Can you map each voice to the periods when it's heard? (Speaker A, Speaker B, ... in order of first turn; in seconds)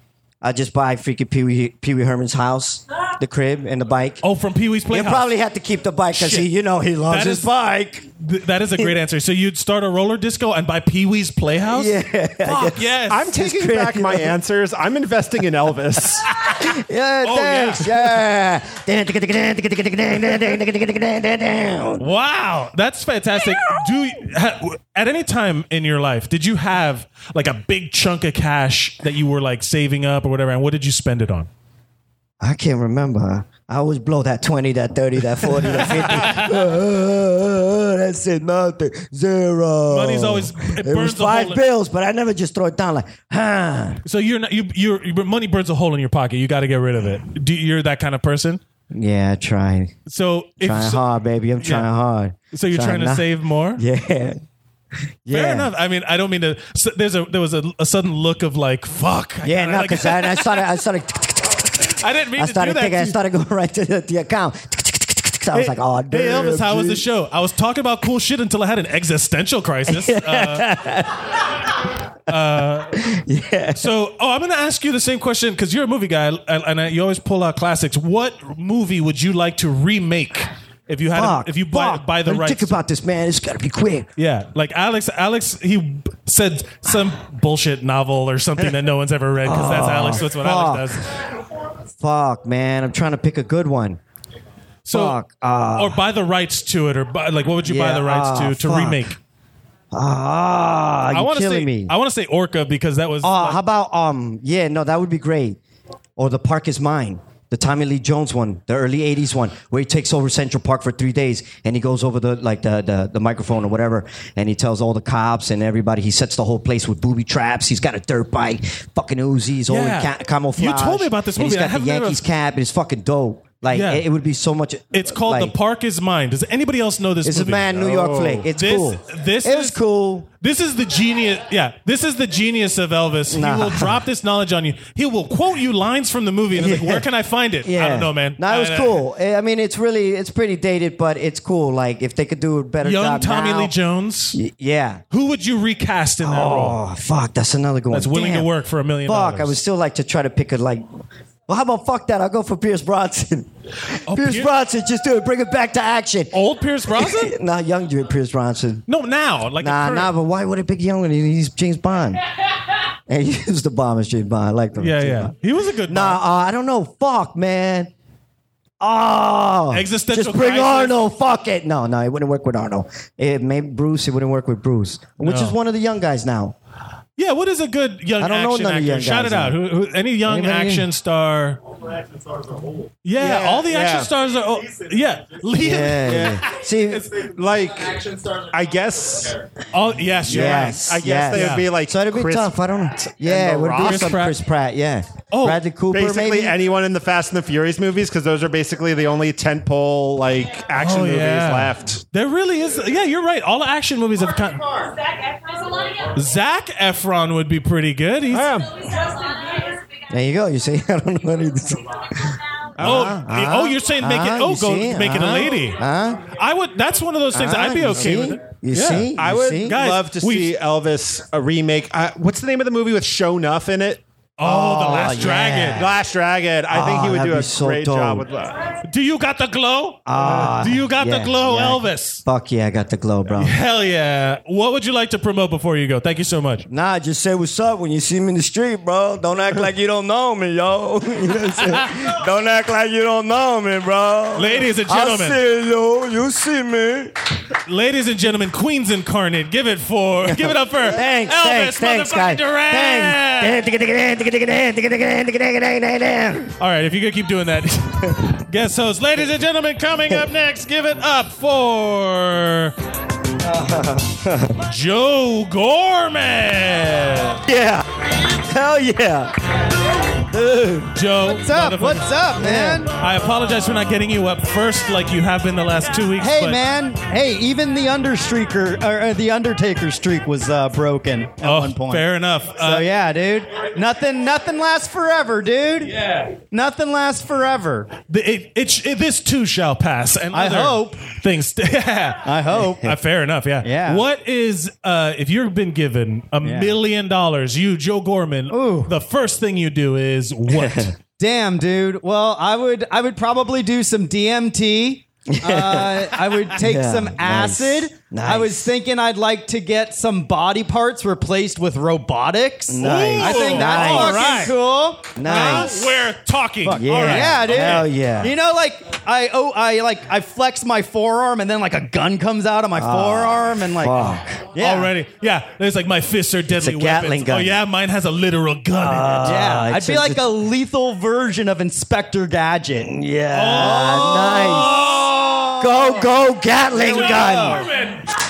Speaker A: 0.4-4.2, 4.9-8.1, 11.7-14.3, 16.5-22.1, 32.4-44.0, 48.9-49.9, 50.6-53.2, 53.8-54.4, 55.2-55.7, 59.4-61.7, 62.4-67.0, 69.9-71.1, 72.9-73.9, 81.1-84.1, 89.4-91.0, 92.0-94.0, 94.9-96.0, 97.6-99.0, 99.9-101.9, 103.2-105.6, 106.2-125.5, 127.2-130.3, 133.3-134.0, 136.5-137.0, 137.6-143.7, 144.3-145.0, 146.2-148.5, 149.1-150.8, 151.5-153.5, 154.1-156.3, 156.9-158.8, 159.6-162.2, 163.1-165.3, 165.9-167.9, 168.8-176.5, 178.2-179.6, 180.2-180.9, 185.5-187.0, 190.2-196.6, 210.1-212.3, 212.8-216.3, 217.3-219.7, 224.4-225.9, 226.7-228.3, 230.1-233.5, 236.7-247.1, 250.2-256.5, 263.4-264.5, 267.5-267.8, 268.4-269.3, 270.3-270.9, 272.4-272.9, 300.6-300.9, 305.3-306.0, 306.6-308.7, 312.7-314.4, 315.1-315.9, 316.7-318.3, 322.8-324.5, 326.5-327.6, 328.8-330.2, 332.8-334.9, 335.6-337.7
Speaker B: 4.2-5.3, 6.1-6.5, 7.1-7.5, 8.2-13.3, 17.2-18.1, 22.0-31.5, 35.7-36.5, 39.9-41.6, 44.0-48.6, 50.1-51.0, 51.6-51.9, 52.5-53.8, 55.3-60.6, 62.0-63.2, 65.5-70.7, 72.3-73.0, 73.7-82.8, 84.2-91.0, 94.8-95.2, 95.7-99.2, 101.1-103.6, 119.7-122.2, 123.7-124.0, 124.9-129.8, 130.4-139.0, 142.8-144.4, 145.1-146.8, 147.9-149.6, 154.1-154.5, 156.3-157.3, 158.9-160.1, 164.8-166.2, 169.7-171.0, 175.2-175.6, 177.2-181.6, 183.0-186.3, 189.7-191.7, 193.8-194.4, 195.3-195.6, 200.8-204.9, 206.1-208.5, 212.8-220.5, 224.4-225.8, 228.8-232.2, 233.3-236.6, 244.3-245.4, 247.7-253.6, 256.6-262.7, 264.7-267.4, 270.9-272.1, 272.9-276.6, 281.4-282.9, 288.1-300.9, 312.8-314.6, 315.2-317.9, 324.6-329.5, 333.3-335.5, 336.7-338.0
Speaker C: 13.1-16.3, 127.8-128.4, 183.2-184.1, 186.0-189.4, 190.3-194.2, 195.9-202.0, 208.3-208.7, 212.8-213.2, 219.1-224.0, 225.7-228.7
Speaker D: 271.2-272.9, 276.2-282.0, 282.6-285.9, 286.5-287.9, 290.3-291.1, 292.2-292.8, 293.6-294.0, 296.4-296.7, 298.5-298.9, 301.2-315.5, 316.6-324.9, 329.2-332.9, 333.6-334.0, 335.1-335.7, 336.8-337.5